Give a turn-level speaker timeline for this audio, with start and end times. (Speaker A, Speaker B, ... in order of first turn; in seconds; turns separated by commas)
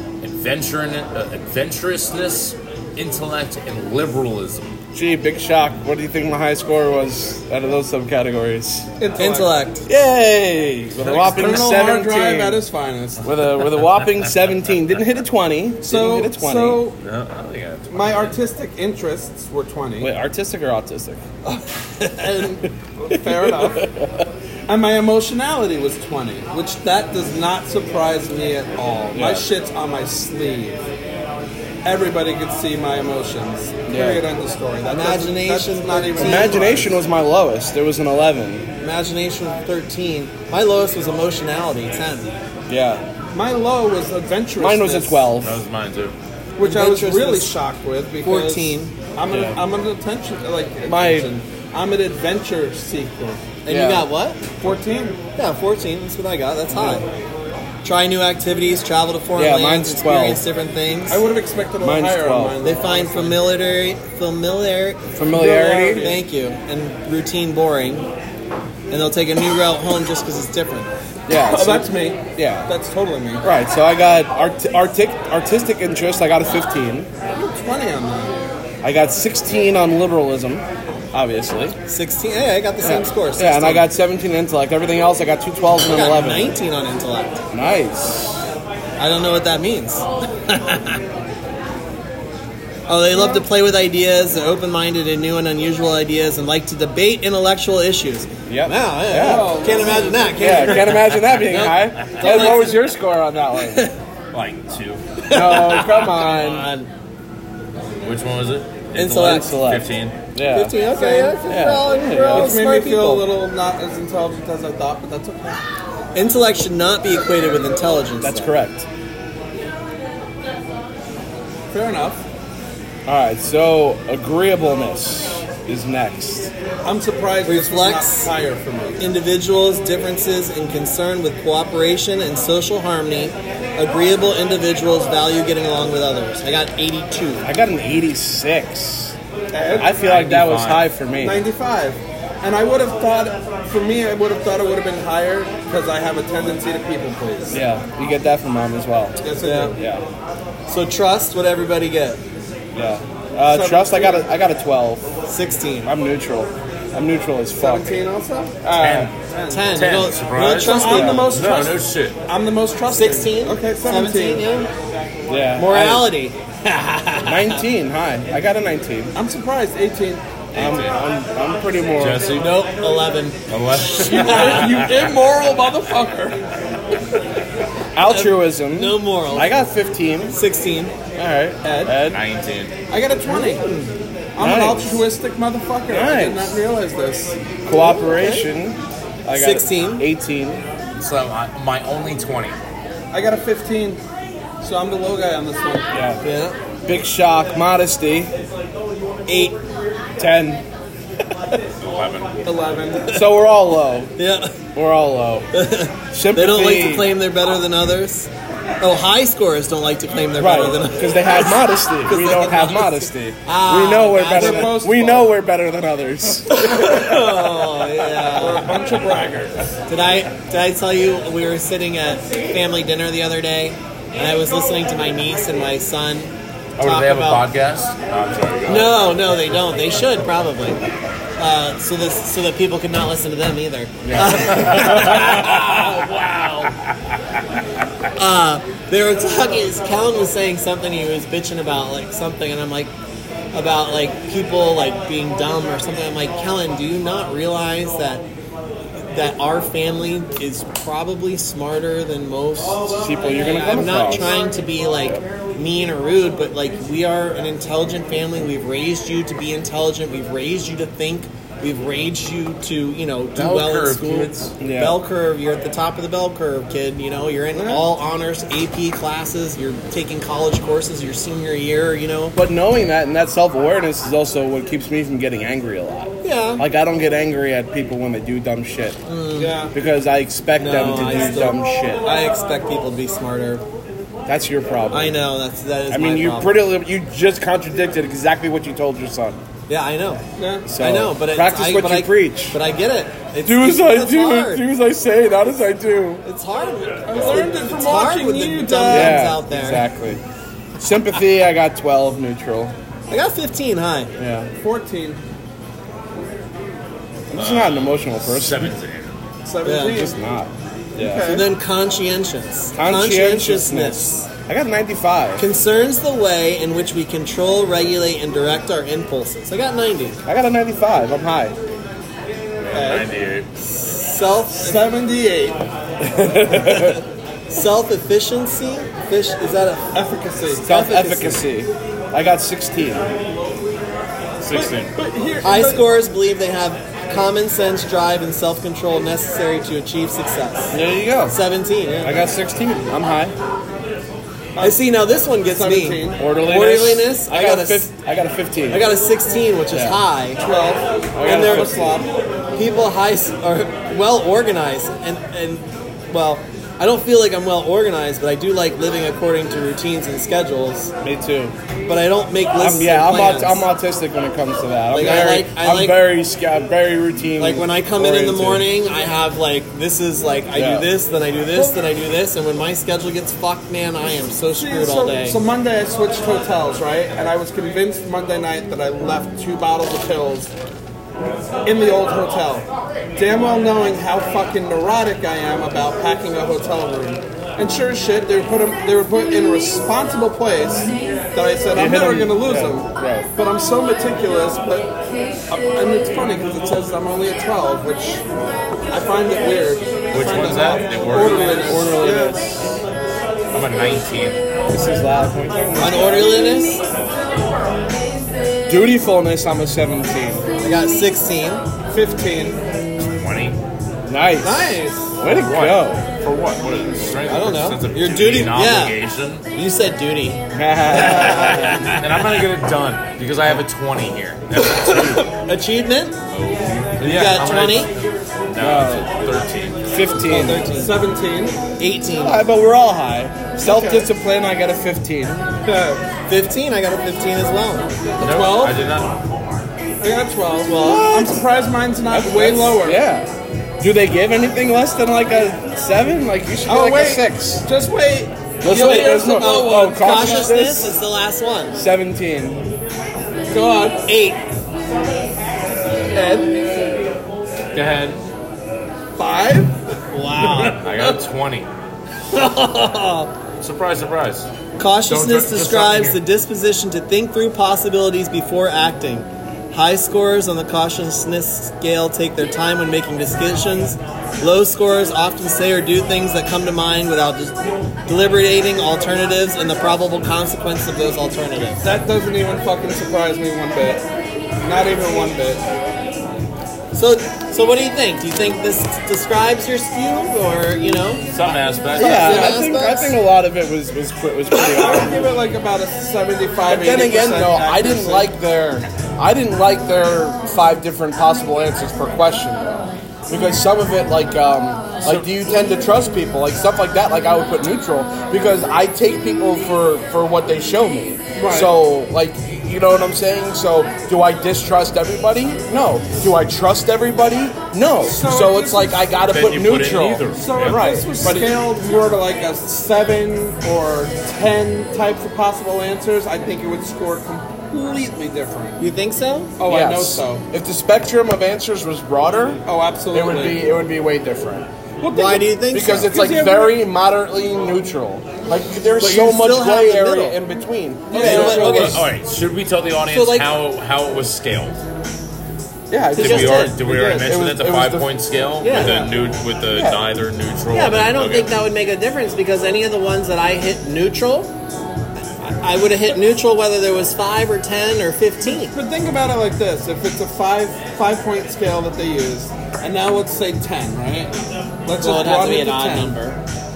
Speaker A: 0.2-4.8, Speaker B: 4.9-8.9, Speaker C: 9.0-9.6, Speaker D: 9.2-9.8, Speaker B: 9.9-12.6, Speaker C: 11.0-13.3, Speaker B: 13.2-16.8, Speaker A: 13.8-14.2, Speaker C: 15.8-17.0, Speaker A: 17.0-18.4, Speaker C: 17.9-20.1, Speaker B: 20.0-21.2, Speaker C: 21.5-23.9, Speaker B: 23.1-24.3, Speaker C: 24.7-30.8, Speaker B: 29.1-29.5, Speaker C: 31.9-36.9, Speaker B: 33.9-34.2, Speaker D: 34.9-36.6, Speaker B: 36.2-38.7, Speaker D: 38.8-42.3, Speaker B: 42.7-43.0, Speaker C: 43.3-45.2, Speaker B: 44.6-45.6, Speaker A: 45.4-46.2, Speaker C: 46.6-53.4, Speaker D: 46.6-47.5, Speaker D: 48.2-49.0, Speaker B: 49.3-49.6, Speaker B: 50.9-51.3, Speaker D: 53.6-54.4, Speaker B: 53.7-54.1, Speaker C: 54.6-55.2, Speaker D: 55.4-57.0, Speaker B: 56.7-57.0, Speaker D: 57.8-61.2, Speaker B: 59.4-60.4, Speaker C: 61.1-63.5, Speaker B: 61.8-62.6, Speaker D: 62.6-65.0, Speaker B: 65.2-66.1, Speaker C: 65.3-66.2, Speaker D: 65.9-68.1, Speaker D: 68.9-70.9, Speaker B: 71.3-72.7, Speaker C: 71.3-73.5, Speaker B: 73.4-77.1, Speaker C: 77.3-78.4, Speaker B: 78.8-81.8, Speaker D: 81.9-83.9, Speaker B: 82.8-86.6, Speaker D: 85.8-87.4, Speaker B: 87.5-88.5, Speaker D: 89.0-91.0, Speaker D: 92.9-102.8, Speaker C: 93.1-93.5, Speaker B: 98.5-99.7, Speaker C: 99.2-100.9, Speaker B: 100.4-103.9, Speaker C: 102.2-102.8, Speaker D: 103.7-103.9, Speaker A: 104.3-105.0, Speaker D: 105.2-106.9, Speaker B: 105.3-106.7, Speaker A: 108.0-110.2, Speaker D: 109.0-109.5, Speaker B: 109.0-110.8, Speaker D: 110.5-113.3, Speaker C: 110.9-111.4, Speaker B: 111.5-112.6, Speaker C: 112.3-115.7, Speaker D: 116.2-118.5, Speaker B: 118.2-118.9, Speaker C: 121.7-122.2, Speaker B: 123.1-126.5, Speaker C: 126.8-129.0, Speaker D: 127.4-128.3, Speaker D: 129.0-137.5, Speaker B: 137.4-139.2, Speaker C: 139.5-139.9, Speaker B: 139.8-141.4, Speaker A: 139.8-140.9, Speaker C: 141.2-147.6, Speaker B: 147.5-149.2, Speaker C: 149.2-149.8, Speaker D: 149.4-149.8, Speaker B: 149.7-150.1, Speaker D: 150.7-152.2, Speaker B: 152.7-155.1, Speaker C: 153.5-154.3, Speaker D: 155.3-155.9, Speaker B: 155.8-158.0, Speaker C: 157.6-159.8, Speaker B: 158.6-159.1, Speaker A: 158.8-159.2, Speaker D: 159.5-161.3, Speaker A: 159.7-162.2, Speaker C: 160.5-164.5, Speaker D: 162.9-164.7, Speaker B: 165.3-166.1, Speaker D: 165.6-167.6, Speaker B: 167.2-169.1, Speaker C: 169.1-170.2, Speaker A: 170.5-171.0, Speaker B: 170.5-172.3, Speaker A: 172.0-172.6, Speaker D: 172.3-173.4, Speaker A: 173.5-175.1, Speaker C: 173.8-176.4, Speaker D: 173.9-174.7, Speaker B: 177.9-180.4, Speaker D: 178.1-179.6, Speaker D: 180.3-180.9, Speaker B: 181.2-182.2, Speaker C: 181.6-182.0, Speaker A: 182.0-182.7, Speaker C: 182.9-183.7, Speaker D: 183.3-183.9, Speaker C: 184.4-187.4, Speaker B: 184.4-185.0, Speaker B: 185.9-186.6, Speaker B: 187.7-190.6, Speaker D: 189.3-190.1, Speaker A: 191.0-192.6, Speaker C: 193.1-194.0, Speaker C: 194.6-195.9, Speaker B: 195.9-196.2, Speaker D: 196.2-196.6, Speaker B: 196.9-198.3, Speaker D: 199.3-199.6, Speaker B: 200.2-200.6, Speaker A: 201.8-202.4, Speaker C: 202.4-203.2, Speaker B: 203.1-204.2, Speaker D: 204.2-204.6, Speaker B: 204.7-205.5, Speaker D: 205.5-214.8, Speaker B: 206.1-207.2, Speaker B: 210.4-217.6, Speaker C: 214.3-215.3, Speaker D: 216.5-218.7, Speaker C: 218.4-219.7, Speaker D: 219.9-227.4, Speaker A: 226.8-229.4, Speaker D: 228.7-230.8, Speaker D: 231.4-236.7, Speaker B: 234.0-235.3, Speaker A: 234.2-236.9, Speaker D: 238.2-242.9, Speaker D: 243.5-248.2, Speaker D: 249.1-272.4, Speaker B: 252.9-254.3, Speaker A: 263.4-264.5, Speaker B: 264.6-265.0, Speaker C: 267.5-267.9, Speaker B: 272.4-279.0, Speaker D: 276.2-276.6, Speaker D: 279.1-279.7, Speaker C: 279.4-279.8, Speaker B: 279.7-282.1, Speaker D: 280.6-283.6, Speaker B: 284.3-285.2, Speaker D: 284.9-286.6, Speaker B: 285.9-289.4, Speaker D: 289.7-294.6, Speaker C: 290.4-290.7, Speaker B: 290.7-292.6, Speaker B: 293.4-296.2, Speaker D: 296.2-299.9, Speaker C: 297.1-299.2, Speaker B: 297.1-297.4, Speaker B: 298.9-300.2, Speaker B: 300.8-302.7, Speaker D: 303.1-304.1, Speaker B: 304.2-304.5, Speaker C: 304.6-305.2, Speaker B: 307.3-308.8, Speaker A: 307.3-309.2, Speaker C: 309.4-310.1, Speaker D: 309.6-310.0, Speaker B: 309.9-311.4, Speaker C: 311.0-311.5, Speaker D: 311.2-314.3, Speaker B: 312.7-315.4, Speaker D: 315.4-320.2, Speaker B: 320.3-321.6, Speaker A: 322.6-323.5, Speaker C: 322.7-323.1, Speaker D: 323.6-324.9, Speaker C: 324.6-325.6, Speaker B: 326.0-327.0, Speaker D: 326.5-327.0, Speaker D: 327.5-330.0, Speaker C: 329.9-330.7, Speaker D: 330.5-331.4, Speaker B: 330.6-333.1, Speaker A: 334.4-334.9, Speaker C: 334.5-335.9, Speaker D: 335.4-342.2, Speaker B: 340.7-341.4, Speaker B: 342.0-343.4, Speaker C: 344.6-344.9, Speaker D: 344.6-347.9, Speaker C: 345.4-346.2, Speaker B: 346.2-348.9, Speaker D: 348.7-350.4, Speaker B: 349.7-350.0, Speaker C: 350.4-352.1, Speaker B: 351.1-352.0, Speaker D: 351.2-351.8, Speaker D: 352.5-360.9, Speaker B: 361.0-361.6, Speaker D: 361.9-363.7, Speaker B: 362.6-368.7, Speaker D: 364.9-366.1, Speaker D: 367.4-375.4, Speaker B: 370.5-370.9, Speaker C: 374.5-380.5, Speaker C: 381.6-394.9, Speaker B: 391.7-393.3, Speaker C: 395.5-398.2, Speaker C: 398.9-402.4, Speaker A: 400.1-402.1, Speaker B: 401.6-402.8, Speaker A: 403.5-404.4, Speaker B: 404.7-406.5, Speaker D: 405.8-406.8, Speaker B: 408.7-410.4, Speaker D: 410.6-411.7, Speaker C: 411.9-412.6, Speaker A: 413.0-413.6, Speaker B: 414.1-416.1, Speaker D: 414.4-415.1, Speaker A: 415.2-419.4, Speaker D: 417.3-419.0, Speaker D: 419.5-422.0, Speaker B: 420.5-422.0, Speaker A: 422.0-425.2, Speaker D: 424.6-426.2, Speaker A: 426.3-429.9, Speaker D: 427.0-427.9, Speaker B: 428.6-429.1, Speaker B: 429.9-430.9, Speaker C: 430.3-431.6, Speaker D: 431.8-432.4, Speaker B: 432.2-435.5, Speaker C: 433.6-434.1, Speaker C: 435.6-436.0, Speaker D: 436.3-437.9, Speaker A: 438.2-439.6, Speaker C: 438.2-438.8, Speaker C: 440.0-443.0, Speaker D: 440.6-441.1, Speaker B: 440.7-441.4, Speaker B: 442.1-447.7, Speaker C: 446.7-450.5, Speaker B: 448.6-451.0, Speaker D: 448.8-451.8, Speaker B: 451.7-452.7, Speaker C: 453.5-454.0, Speaker D: 454.1-454.4, Speaker C: 456.1-456.6, Speaker A: 457.7-458.2, Speaker C: 459.2-459.8, Speaker D: 460.1-460.8, Speaker A: 460.6-461.7, Speaker D: 462.3-463.3, Speaker A: 463.6-464.5, Speaker D: 464.8-481.9, Speaker A: 465.1-466.2, Speaker C: 481.8-484.0, Speaker C: 484.6-485.6, Speaker D: 486.9-491.3, Speaker A: 491.3-492.5, Speaker B: 491.9-495.3, Speaker D: 491.9-493.2, Speaker C: 492.2-492.7, Speaker C: 494.5-498.3, Speaker B: 496.6-521.6, Speaker A: 505.0-505.3, Speaker C: 511.4-511.7, Speaker C: 518.0-519.0, Speaker A: 519.3-521.1, Speaker C: 520.3-528.8, Speaker D: 528.8-529.6, Speaker C: 529.6-530.4, Speaker B: 529.6-534.7, Speaker C: 532.7-533.6, Speaker C: 535.0-536.8, Speaker D: 535.1-536.1, Speaker B: 535.7-541.5, Speaker D: 539.0-540.4, Speaker C: 541.1-542.0, Speaker D: 541.1-542.1, Speaker A: 541.1-544.8, Speaker D: 543.1-543.5, Speaker B: 545.9-548.2, Speaker D: 546.1-547.3, Speaker A: 546.1-551.5, Speaker D: 548.6-549.0, Speaker C: 548.7-549.1, Speaker B: 549.7-550.0, Speaker D: 550.7-554.5, Speaker D: 555.4-558.8, Speaker C: 558.7-564.3, Speaker C: 564.9-566.1, Speaker D: 564.9-566.4